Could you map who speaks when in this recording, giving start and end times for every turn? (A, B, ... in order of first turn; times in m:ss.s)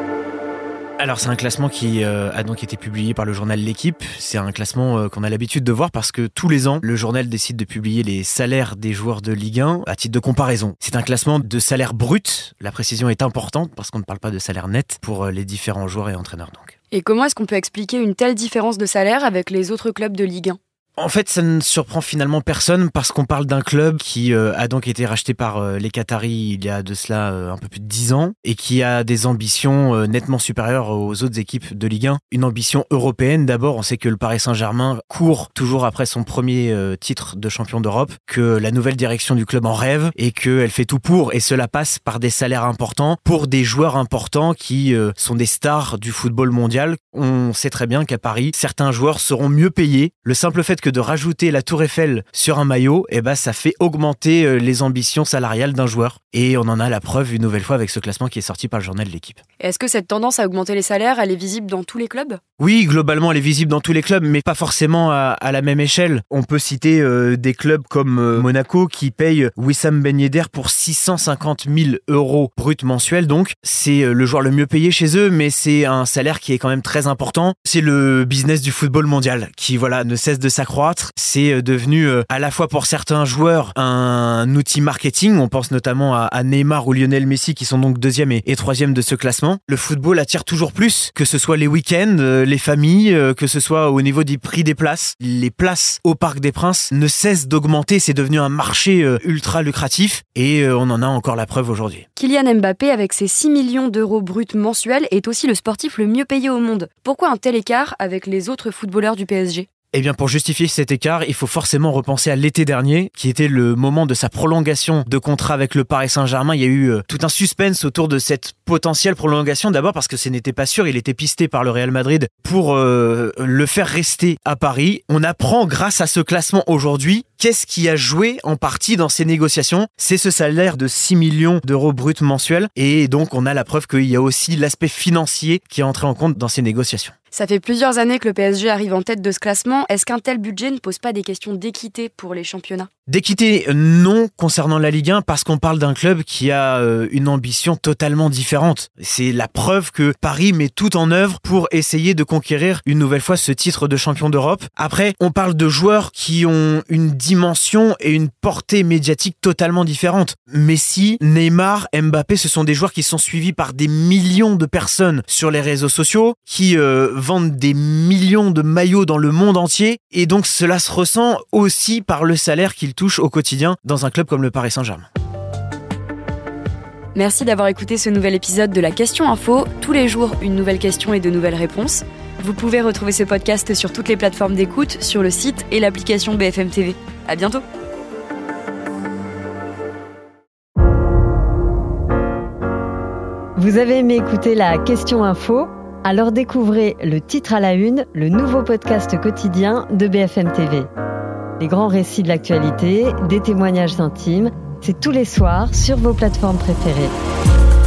0:01.0-0:16.8 A
0:16.9-0:20.6 B
0:21.0-0:59.4 A
0:59.6-1:02.4 B
1:02.6-1:42.1 A
1:42.2-1:49.7 B
1:49.9-2:17.1 A
2:17.3-2:22.9 B
2:23.1-2:55.1 A
2:57.1-3:07.6 B
3:13.6-3:20.9 C
3:21.6-3:27.1 C